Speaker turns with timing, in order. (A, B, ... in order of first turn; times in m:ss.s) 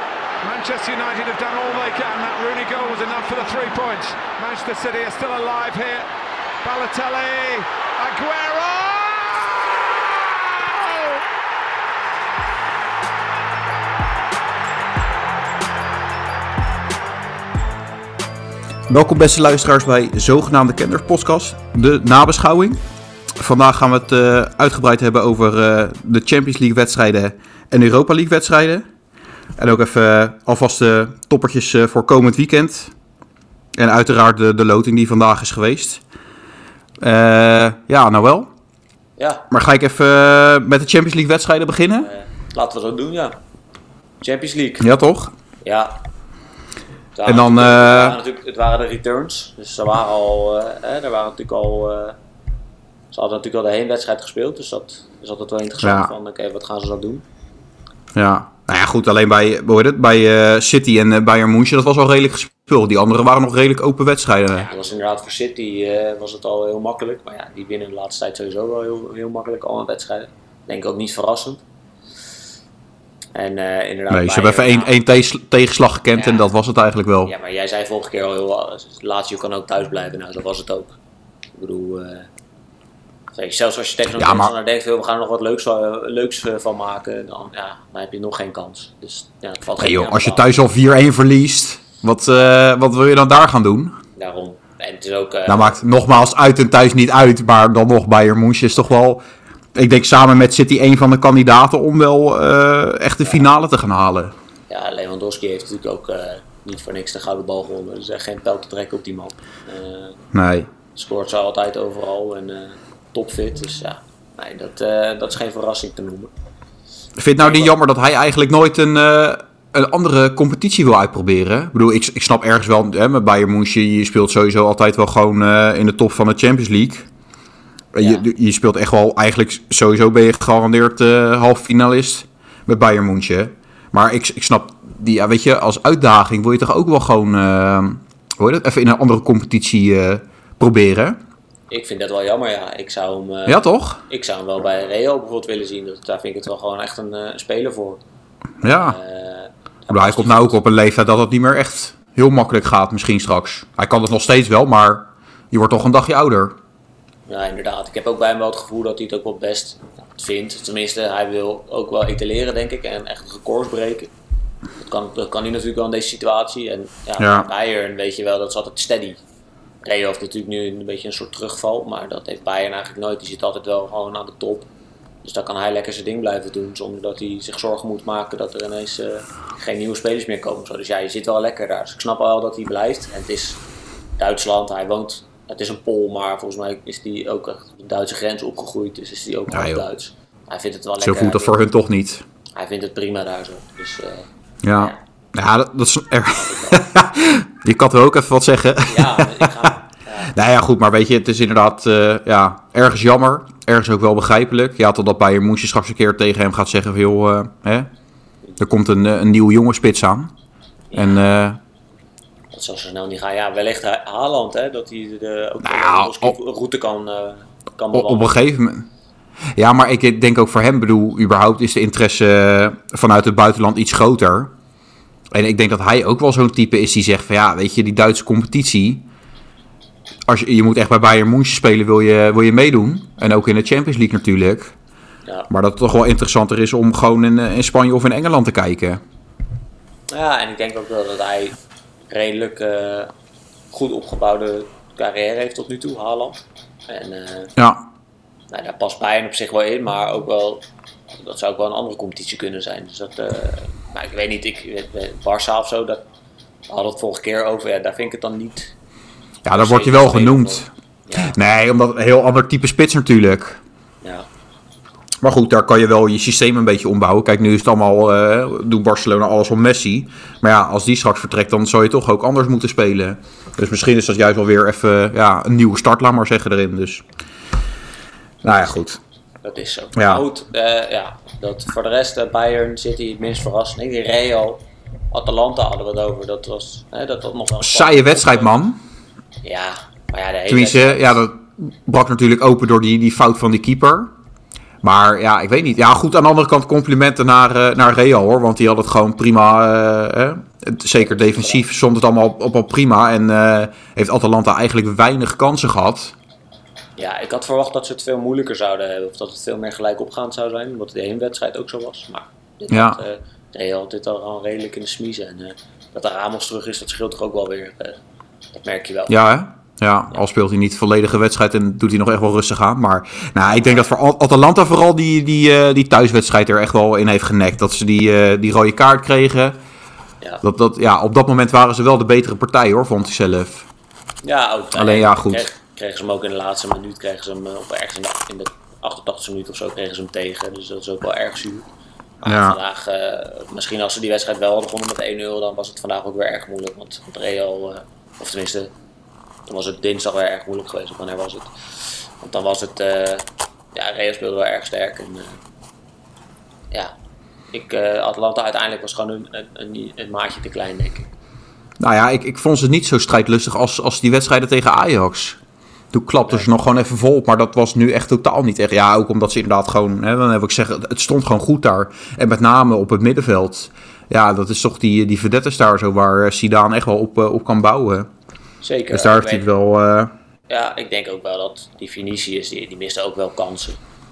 0:00.4-0:06.1 A
0:06.6-0:11.2 A
0:18.9-0:22.8 B
0:23.4-0:28.9 B
0:29.6-0:32.9 B
0:33.7-0:36.0 B
0:37.0-0:38.5 B
0:39.2-0:39.4 C
0:39.5-0:42.1 B
0:42.0-0:43.4 C
0:44.2-0:44.9 C
0:44.8-0:45.3 B
0:45.6-0:46.0 C
0:47.2-0:52.2 C
0:47.2-0:48.2 B
0:53.1-0:57.2 C
0:55.8-0:56.1 B
0:58.1-1:04.7 B
1:04.5-1:11.6 C
1:13.4-1:14.9 C
1:14.1-1:17.3 B
1:16.2-1:16.5 C
1:17.2-1:21.0 C
1:21.6-1:22.3 C
1:23.4-1:30.5 C
1:24.1-1:24.5 B
1:29.8-1:34.0 B
1:34.2-1:35.8 C
1:35.5-1:39.2 B
1:39.7-1:44.3 B
1:44.7-1:50.2 C
1:50.3-1:50.7 B
1:51.0-1:56.3 C
1:57.2-2:07.1 B
1:57.4-1:57.8 C
2:07.9-2:21.2 B
2:08.0-2:08.3 C
2:21.7-2:28.0 C
2:23.4-2:24.0 B
2:28.6-2:29.0 B
2:28.6-2:30.6 C
2:29.9-2:36.6 B
2:37.3-2:44.1 C
2:44.8-2:49.2 C
2:47.2-2:47.5 B
2:49.8-2:54.7 C
2:55.2-3:03.6 C
3:04.2-3:11.6 C
3:09.5-3:09.8 B
3:11.0-3:12.2 B
3:12.6-3:15.0 C
3:14.6-3:19.7 B
3:16.3-3:16.8 C
3:18.9-3:20.3 C
3:20.3-3:27.9 B
3:28.6-3:30.3 B
3:30.9-3:31.4 C
3:30.9-3:31.6 B
3:32.5-3:38.3 C
3:35.6-3:36.4 B
3:37.9-3:38.9 B
3:39.5-3:44.5 B
3:45.3-3:49.0 B
3:50.3-3:54.7 B
3:55.5-3:59.0 B
4:00.1-4:01.6 C
4:02.1-4:03.1 C
4:03.7-4:07.5 C
4:07.6-4:07.8 B
4:08.5-4:10.6 C
4:11.1-4:16.0 C
4:16.7-4:18.7 C
4:19.4-4:23.6 B
4:19.5-4:21.4 C
4:25.2-4:37.0 B
4:38.4-4:39.0 B
4:38.5-4:38.8 C
4:39.4-4:44.6 C
4:39.9-4:40.2 B
4:45.1-4:48.5 C
4:47.6-4:48.8 B
4:49.4-4:51.2 C
4:50.5-4:54.1 B
4:54.8-5:06.1 B
5:01.0-5:01.6 C
5:07.0-5:18.0 C
5:12.7-5:13.0 B
5:18.5-5:19.2 C
5:19.1-5:29.6 B
5:23.5-5:23.9 C
5:30.4-5:33.7 B
5:34.2-5:41.7 C
5:34.8-5:35.5 B
5:42.2-5:48.7 C
5:42.2-5:42.6 B
5:49.5-5:55.4 C
5:57.5-6:01.1 C
6:01.8-6:05.4 B
6:05.9-6:18.1 B
6:18.6-6:19.5 C
6:18.9-6:20.1 B
6:20.5-6:23.8 C